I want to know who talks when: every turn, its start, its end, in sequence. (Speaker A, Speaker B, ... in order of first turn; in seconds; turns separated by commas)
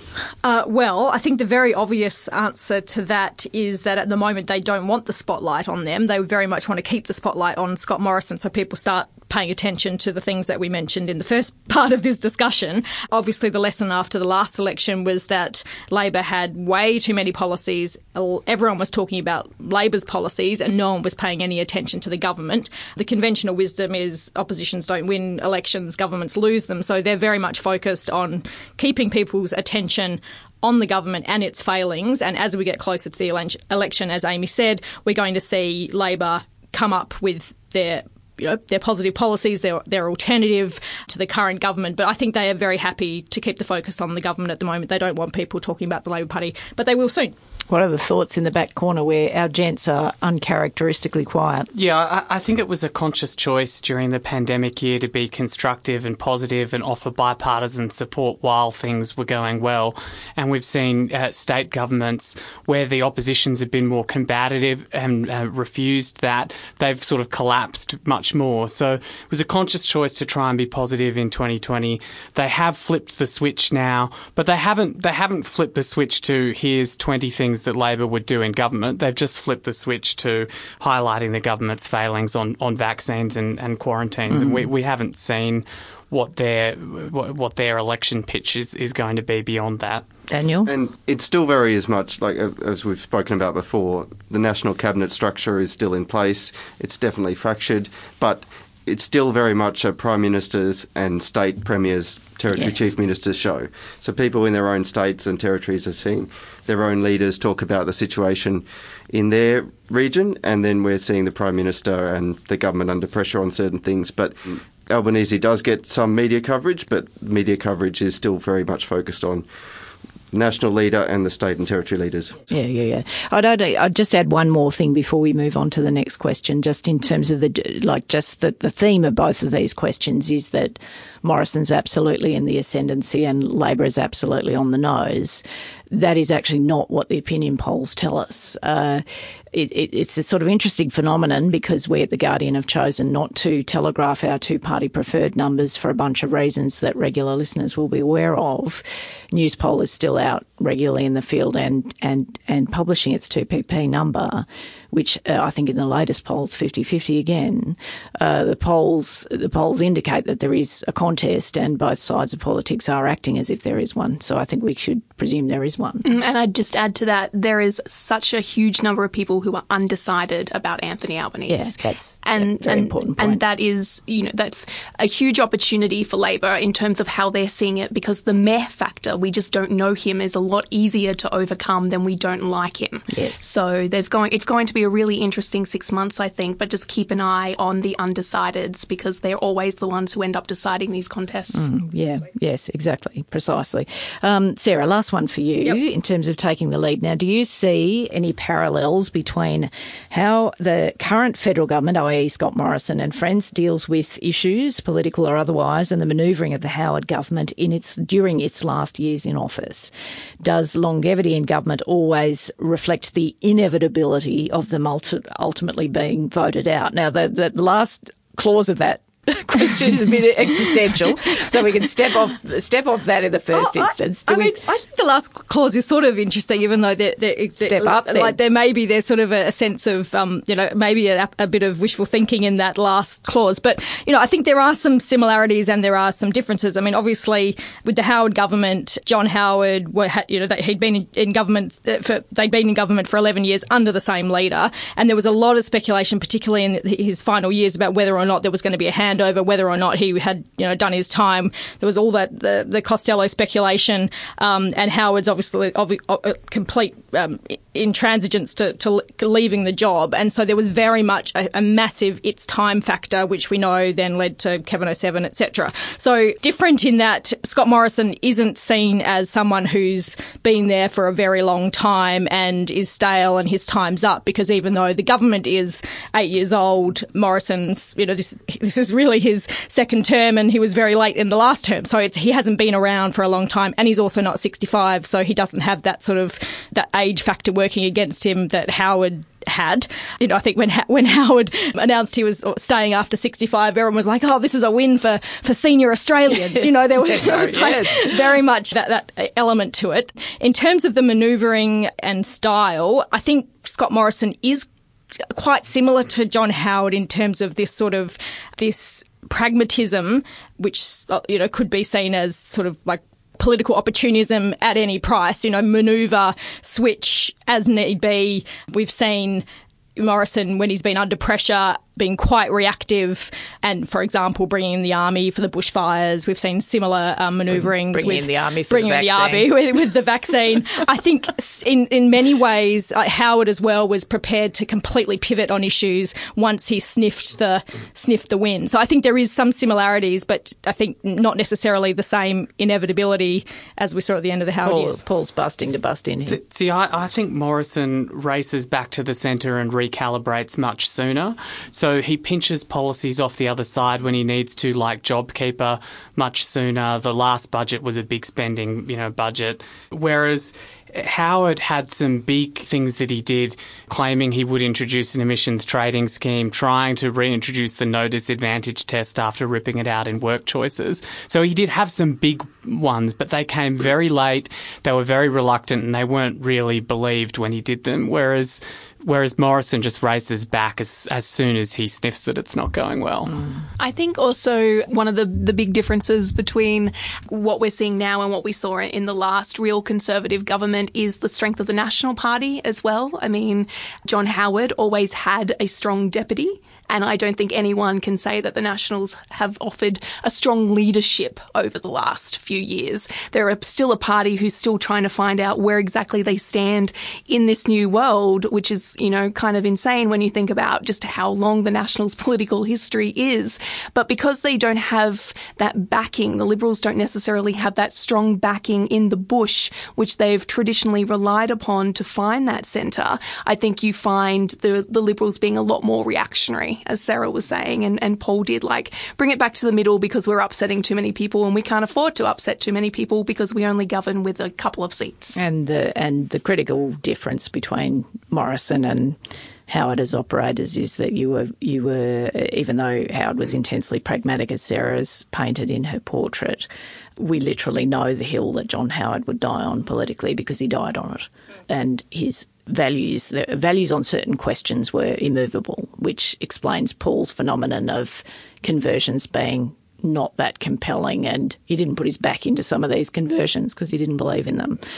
Speaker A: 0.4-47.3, Speaker B: 47.7-51.7, Speaker C: 51.7-90.0, Speaker B: 84.3-84.7, Speaker B: 90.3-90.7, Speaker D: 90.6-119.4, Speaker B: 102.5-102.8, Speaker D: 120.3-122.5, Speaker B: 122.5-166.1, Speaker E: 166.0-191.7, Speaker B: 171.5-173.4, Speaker B: 183.1-183.4, Speaker B: 191.5-224.6, Speaker A: 223.5-304.7, Speaker B: 227.6-228.4, Speaker B: 296.3-298.3, Speaker A: 305.3-319.4, Speaker A: 319.9-345.0, Speaker B: 327.5-329.5, Speaker B: 344.6-346.4, Speaker C: 346.2-383.4, Speaker E: 383.8-435.4, Speaker B: 435.3-439.2, Speaker B: 439.7-464.8